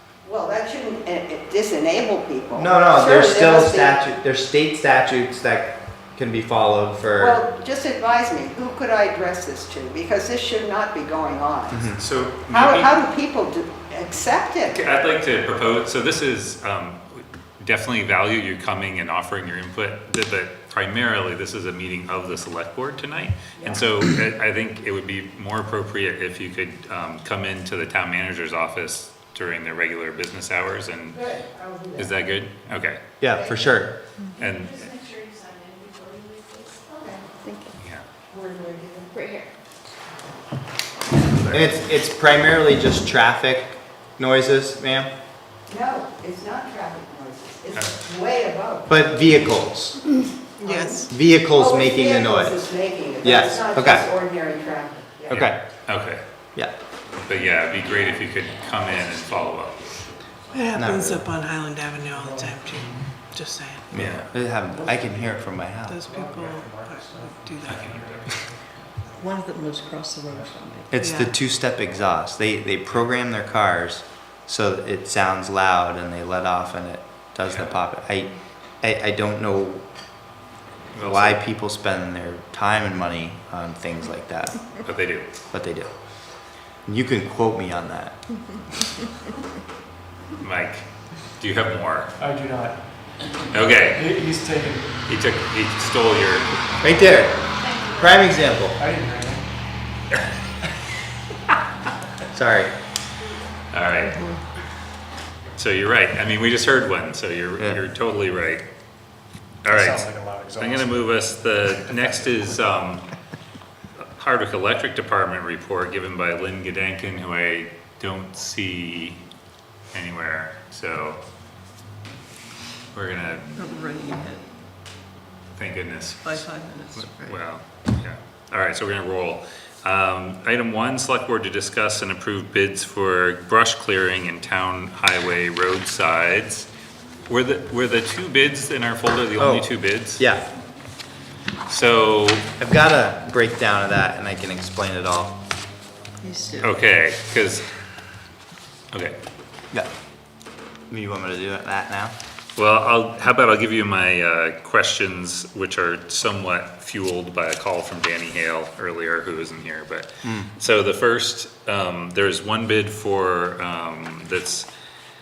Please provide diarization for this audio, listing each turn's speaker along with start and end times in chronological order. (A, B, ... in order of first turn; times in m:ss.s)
0:00.2-0:04.0 A
0:02.5-0:07.4 B
0:07.2-0:11.9 A
0:11.7-0:12.0 B
0:12.0-0:12.9 C
0:12.5-0:14.8 A
0:14.7-0:31.3 C
0:23.6-0:23.8 A
0:31.1-0:32.1 A
0:32.0-0:33.0 C
0:33.2-0:34.0 B
0:34.4-0:35.0 C
0:34.9-0:36.8 D
0:36.9-0:37.2 A
0:38.3-0:39.2 A
0:39.1-0:39.5 D
0:41.4-0:41.6 C
0:41.5-0:45.1 B
0:45.7-0:48.9 A
0:48.9-0:50.0 B
0:50.6-0:55.4 A
0:50.6-0:51.1 E
0:51.1-0:52.6 B
0:53.2-0:54.0 B
0:55.3-0:55.6 B
0:55.3-0:56.2 C
0:57.2-0:59.8 C
1:00.5-1:03.9 E
1:00.7-1:01.2 B
1:02.1-1:03.2 F
1:03.9-1:04.3 C
1:03.9-1:06.0 B
1:04.7-1:09.3 F
1:05.8-1:07.8 E
1:07.6-1:08.3 C
1:09.2-1:09.9 D
1:09.3-1:10.9 G
1:10.3-1:10.6 F
1:10.9-1:19.8 B
1:10.9-1:11.3 E
1:20.9-1:21.4 C
1:21.0-1:24.6 B
1:24.8-1:25.3 C
1:25.5-1:25.9 B
1:26.8-1:28.2 B
1:30.4-1:30.8 C
1:31.4-1:32.1 C
1:32.2-1:32.8 F
1:33.5-1:34.1 C
1:33.8-1:35.0 F
1:35.1-1:36.5 C
1:36.8-1:38.8 B
1:37.6-1:38.0 D
1:38.8-1:39.4 F
1:42.3-1:42.7 B
1:43.7-1:44.3 C
1:45.6-1:48.6 C
1:49.6-1:53.0 C
1:49.7-1:51.1 F
1:51.7-1:52.6 F
1:54.0-1:59.2 C
1:59.9-2:01.2 C
2:02.9-2:03.5 C
2:03.6-2:04.4 G
2:05.6-2:16.7 C
2:06.2-2:07.4 G
2:17.3-2:20.2 C
2:19.4-2:20.4 B
2:21.7-2:22.5 C
2:22.6-2:25.4 B
2:26.2-2:26.7 G
2:26.6-2:27.6 C
2:30.9-2:32.1 B
2:32.6-2:44.7 C
2:40.2-2:40.5 B